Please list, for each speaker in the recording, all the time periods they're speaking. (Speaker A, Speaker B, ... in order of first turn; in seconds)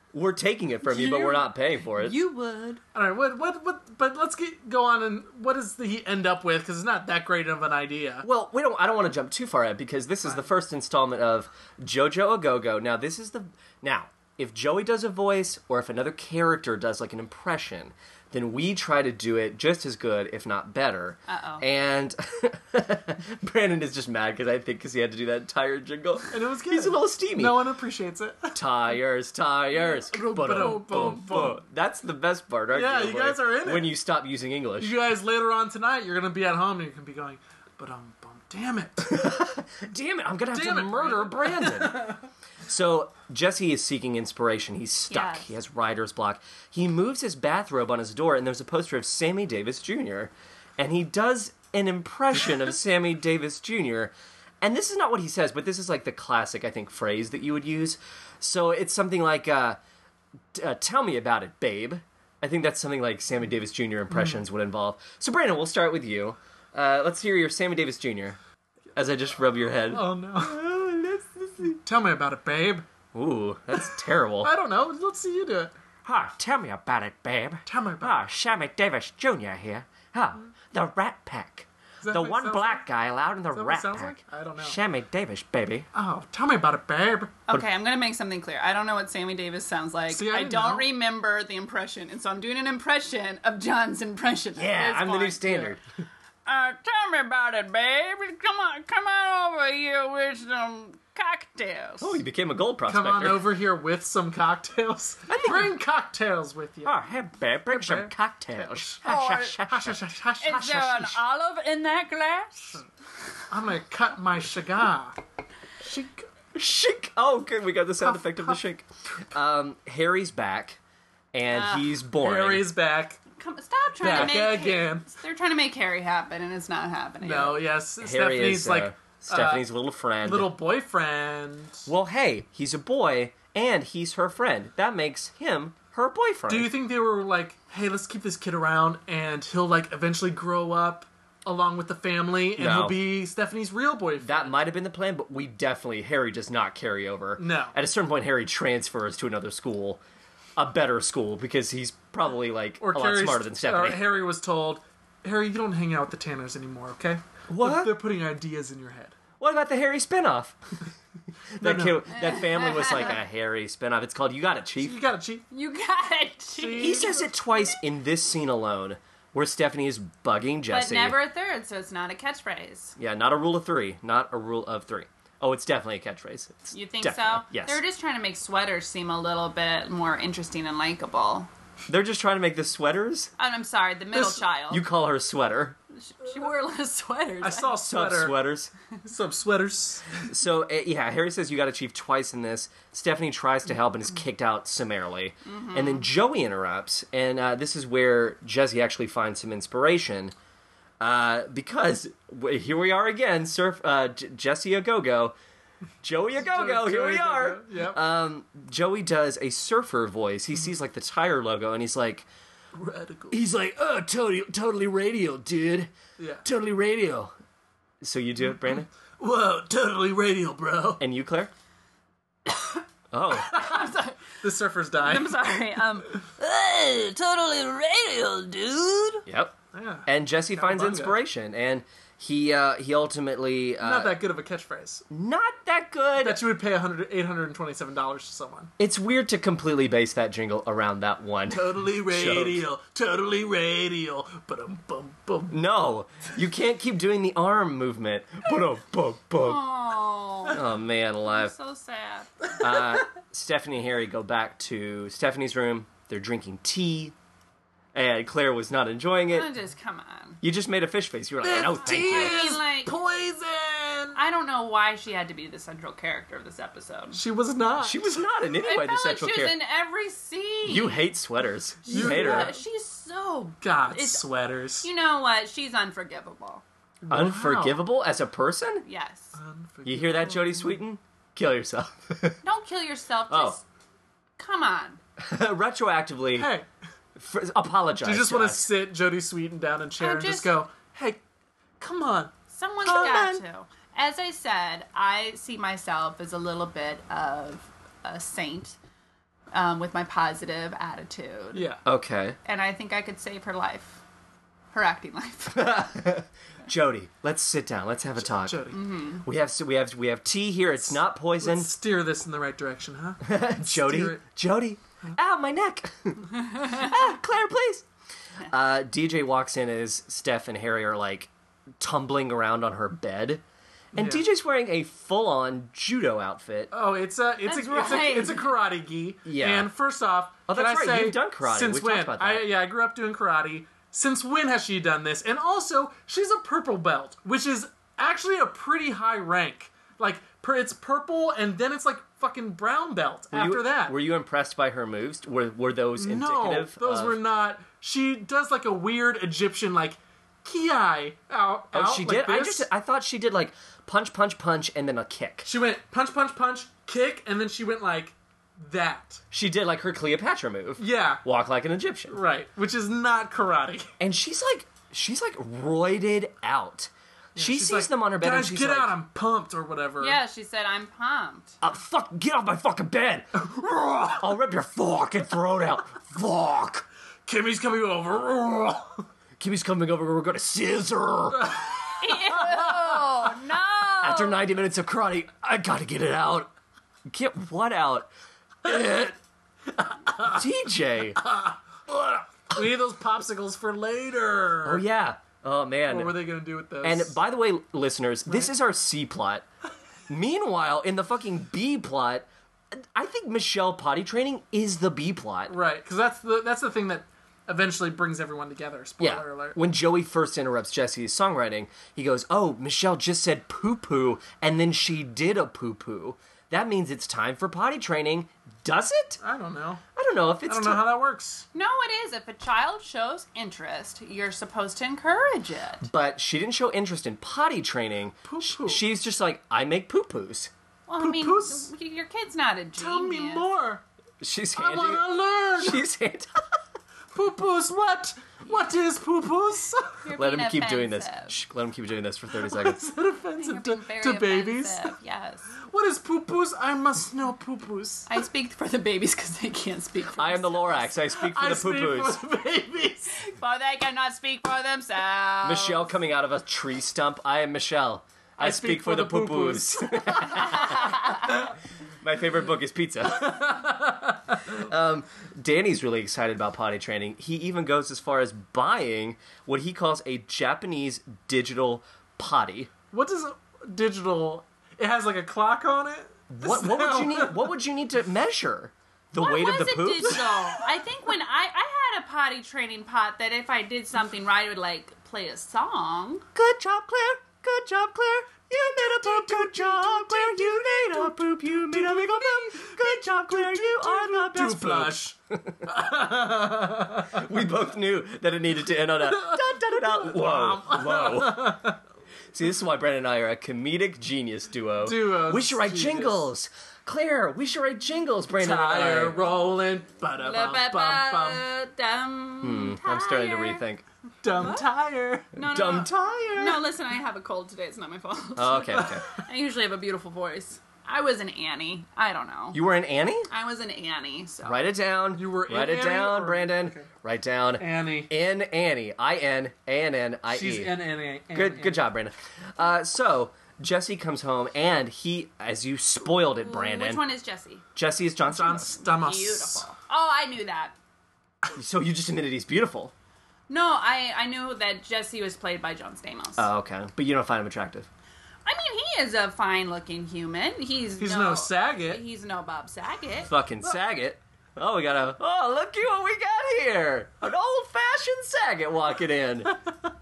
Speaker A: 0.1-2.2, 8.2-27.6, 28.6-35.0, 39.1-59.8, 60.5-68.4, 69.0-71.8, 73.1-74.5, 76.0-85.9, 94.6-95.8, 102.0-103.5, 105.3-105.8, 106.8-110.0, 110.5-110.8, 116.5-120.8, 121.3-122.7, 124.1-124.4, 128.0-130.5, 131.9-136.7, 142.6-143.0, 144.2-150.0, 150.6-154.0, 157.5-157.9, 159.4-160.6, 161.6-165.0, 166.8-171.2, 173.0-177.8, 181.9-183.3, 184.7-185.8, 187.8-188.7, 190.2-200.3, 201.0-205.4, 206.0-212.3, 213.3-215.9, 216.4-217.3, 218.0-218.9, 221.0-221.5, 223.1-223.7, 229.3-234.2, 235.1-236.4, 238.8-242.6, 245.5-249.6, 250.5-251.5, 252.6-257.1, 257.9-259.5, 260.4-262.6, 267.8-269.6, 270.6-272.6, 277.1-278.9, 279.9-282.4, 283.3-283.6, 285.2-286.5, 287.2-288.7, 292.8-293.4, 301.9-302.4, 305.5-308.7, 309.2-311.7, 313.2-317.9, 318.5-323.4, 323.9-326.7, 329.2-329.7, 330.5-332.5, 343.3-347.2, 351.7-355.5, 359.3-362.1, 364.0-368.9, 371.6-373.6, 374.1-376.9, 379.4-381.6, 384.0-386.5, 387.1-388.1, 388.6-389.2, 390.2-391.2, 394.6-396.1, 396.8-399.4, 400.1-405.6, 409.0-419.2, 420.0-420.9, 425.8-430.5, 434.2-436.4, 440.2-442.8, 450.2-452.2, 455.4-463.7, 464.5-472.7, 476.3-480.3, 486.4-495.9, 497.1-501.6, 502.3-509.2, 512.4-513.8, 515.4-516.7, 518.4-519.0, 522.5-523.3, 524.4-530.7, 531.3-537.0, 537.8-538.8, 541.5-542.9, 546.4-547.9, 553.3-559.6
Speaker B: 0.9-1.4, 1.9-2.8, 21.3-21.6, 45.1-45.5, 87.5-95.7, 96.5-102.2, 109.0-109.6, 110.4-112.8, 121.5-121.9, 123.3-127.6, 162.1-163.2, 165.5-167.2, 170.7-173.0, 176.7-181.5, 183.4-184.8, 185.9-187.8, 195.4-196.1, 223.5-224.3, 225.0-229.2, 249.4-250.6, 251.3-252.5, 259.3-260.4, 261.8-262.9, 264.1-267.2, 268.6-271.0, 271.9-274.2, 274.8-276.6, 278.9-279.4, 282.4-283.6, 284.4-285.0, 290.0-290.5, 292.5-298.8, 299.5-301.7, 302.4-304.0, 304.7-305.8, 308.7-309.2, 327.4-328.5, 370.0-371.6, 382.0-384.4, 421.5-425.9, 430.9-433.5, 440.0-441.3, 443.4-445.5, 448.1-450.9, 453.1-455.9, 479.2-486.3, 510.2-513.6, 514.4-514.6, 515.3-522.6, 523.3-524.6, 536.4-537.6, 538.7-540.8, 543.5-546.5, 548.5-553.3
Speaker C: 2.9-8.3, 26.3-28.6, 29.9-31.6, 32.7-33.9, 34.8-39.2, 40.5-42.2, 64.1-64.4, 69.9-70.7, 71.8-72.9, 74.4-75.7, 77.7-78.2, 82.0-82.8, 83.5-84.8, 85.9-87.3, 90.1-90.9, 102.9-107.0, 107.7-109.0, 109.6-111.1, 113.5-115.2, 115.8-116.3, 118.0-118.6, 122.2-123.2, 124.0-125.1, 127.2-129.6, 130.2-131.9, 136.5-144.6, 147.4-147.8, 152.8-159.2, 161.6-162.1, 164.8-165.5, 166.6-167.3, 184.2-184.4, 187.4-188.4, 189.0-190.3, 206.4-208.0, 212.7-213.4, 216.2-216.4, 219.2-221.0, 224.4-225.4, 229.7-231.2, 233.8-235.1, 236.2-238.7, 241.5-245.6, 261.4-264.2, 267.1-268.2, 271.9-272.6, 273.6-274.9, 277.0-277.8, 279.4-280.8, 286.4-286.7, 288.0-291.2, 291.8-292.3, 301.5-301.8, 308.2-308.8, 310.9-314.2, 323.9-324.2, 326.7-344.0, 346.0-352.7, 355.4-359.2, 360.8-361.2, 362.1-363.9, 367.4-370.2, 373.5-374.2, 377.3-379.1, 381.4-381.8, 382.4-382.8, 389.8-390.4, 391.2-394.8, 395.9-397.2, 398.3-398.5, 405.5-409.6, 419.2-419.8, 420.5-421.5, 428.3-428.8, 431.0-431.7, 432.8-433.8, 434.6-435.8, 437.1-440.0, 442.4-444.9, 445.6-448.1, 451.2-453.2, 458.4-460.8, 463.1-464.4, 472.9-477.5, 488.8-497.2, 499.1-501.8, 504.8-506.3, 508.4-511.4, 514.2-515.3, 525.1-526.9, 527.6-528.1, 530.3-531.8, 538.3-539.6, 551.0-552.0